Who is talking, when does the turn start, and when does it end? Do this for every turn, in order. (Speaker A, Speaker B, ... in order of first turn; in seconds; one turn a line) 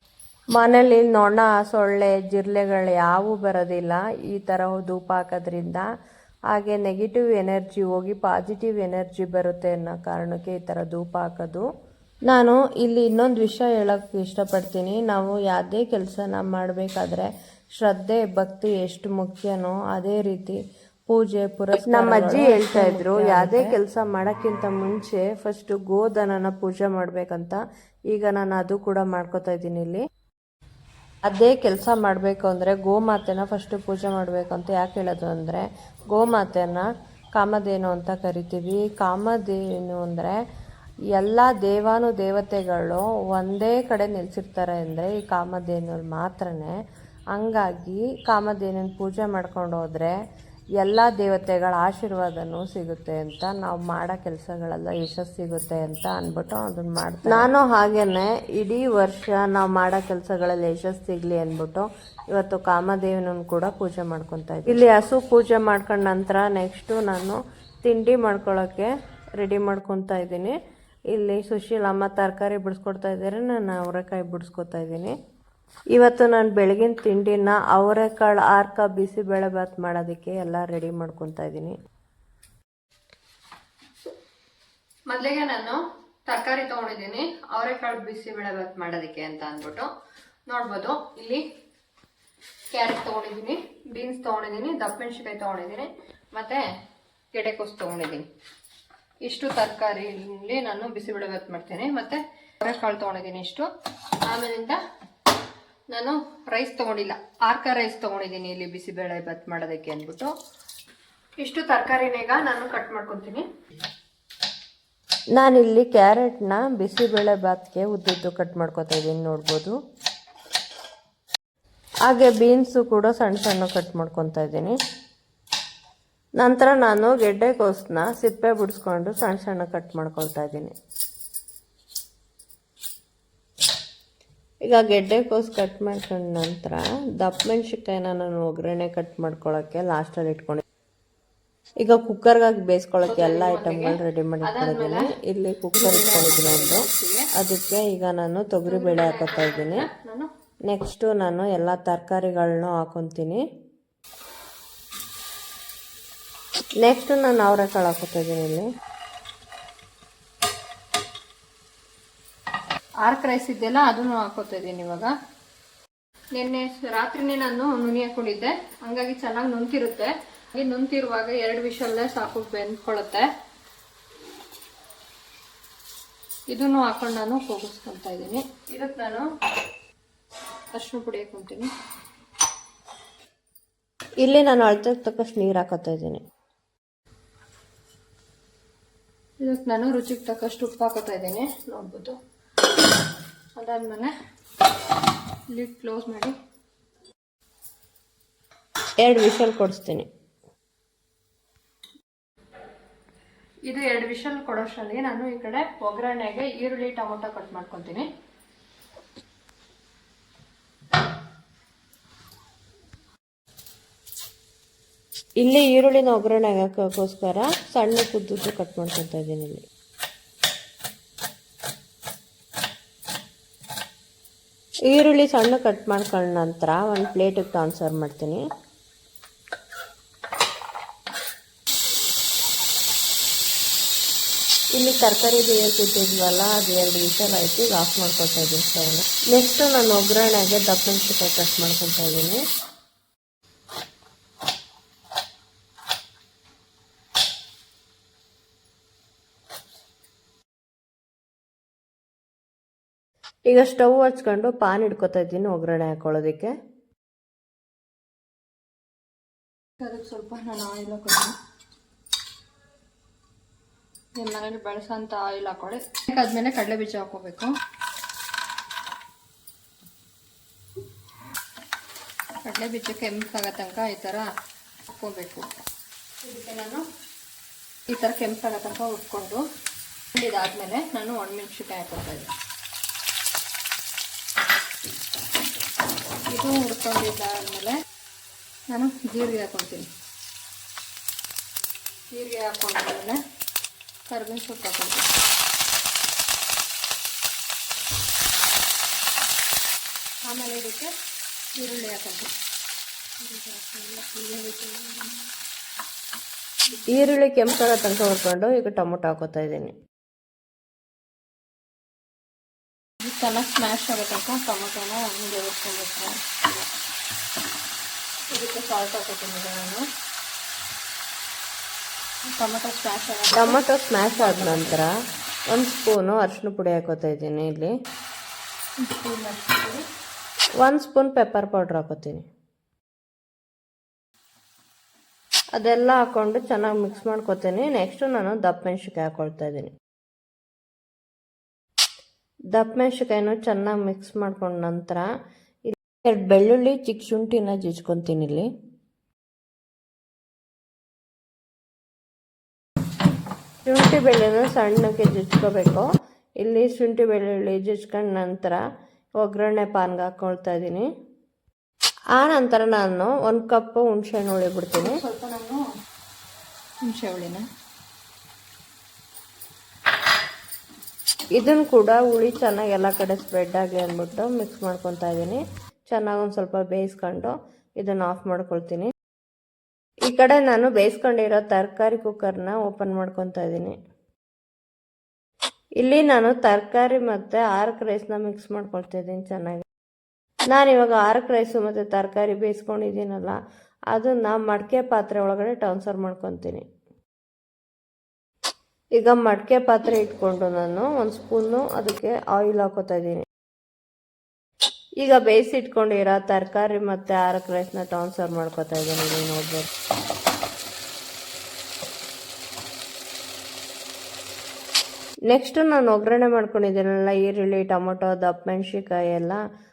Speaker A: 0.6-5.8
Speaker A: 6.5-11.6
Speaker A: 12.3-17.3
Speaker A: 17.8-20.6
Speaker A: 21.1-27.6
Speaker B: 21.9-23.7
Speaker A: 28.1-30.0
Speaker A: 31.2-40.4
Speaker A: 41.1-46.7
Speaker A: 47.3-50.1
Speaker A: 50.8-68.9
Speaker A: 69.4-70.5
Speaker A: 71.1-75.1
Speaker A: 75.9-81.7
Speaker B: 85.1-89.9
Speaker B: 90.5-91.4
Speaker B: 92.7-96.6
Speaker B: 97.3-98.2
Speaker B: 99.2-103.7
Speaker B: 104.2-104.8
Speaker B: 105.9-110.3
Speaker B: 111.4-113.4
Speaker A: 115.3-119.7
Speaker A: 122.0-124.7
Speaker A: 126.4-130.7
Speaker A: 134.7-140.6
Speaker A: 141.8-149.9
Speaker B: 143.1-145.1
Speaker B: 145.8-147.3
Speaker B: 148.7-150.3
Speaker A: 150.7-153.4
Speaker A: 156.8-158.7
Speaker B: 163.0-165.1
Speaker B: 166.3-173.2
Speaker B: 176.5-179.2
Speaker B: 180.7-181.7
Speaker A: 184.2-186.2
Speaker B: 189.4-192.1
Speaker B: 193.6-194.1
Speaker B: 195.5-196.3
Speaker A: 199.0-200.1
Speaker B: 203.7-208.1
Speaker A: 215.4-219.6
Speaker A: 224.9-228.4
Speaker A: 234.7-242.4
Speaker A: 253.5-256.5
Speaker B: 259.8-261.3
Speaker B: 264.2-267.5
Speaker B: 272.4-274.3
Speaker B: 274.9-275.4
Speaker B: 276.2-276.8
Speaker B: 277.9-279.4
Speaker B: 280.1-282.3
Speaker B: 286.3-287.7
Speaker B: 288.7-289.9
Speaker B: 292.1-293.2
Speaker B: 294.1-295.1
Speaker B: 300.2-300.9
Speaker B: 301.5-302.3
Speaker B: 303.2-305.1
Speaker A: 306.9-309.7
Speaker B: 313.0-316.1
Speaker B: 318.3-319.8
Speaker B: 322.2-324.8
Speaker A: 323.3-324.9
Speaker A: 325.5-327.7
Speaker B: 328.8-329.8
Speaker A: 330.6-332.2
Speaker A: 335.5-339.7
Speaker A: 342.5-345.1
Speaker A: 345.7-348.5
Speaker A: 353.6-355.9
Speaker A: 356.4-358.6
Speaker A: 359.2-360.9
Speaker A: 362.1-365.0
Speaker B: 364.8-365.6
Speaker B: 366.8-367.4
Speaker A: 371.4-378.9
Speaker A: 380.0-383.8
Speaker A: 385.8-389.6
Speaker A: 390.5-393.4
Speaker A: 393.9-396.6
Speaker A: 399.0-403.2
Speaker A: 405.0-409.7
Speaker A: 415.3-419.4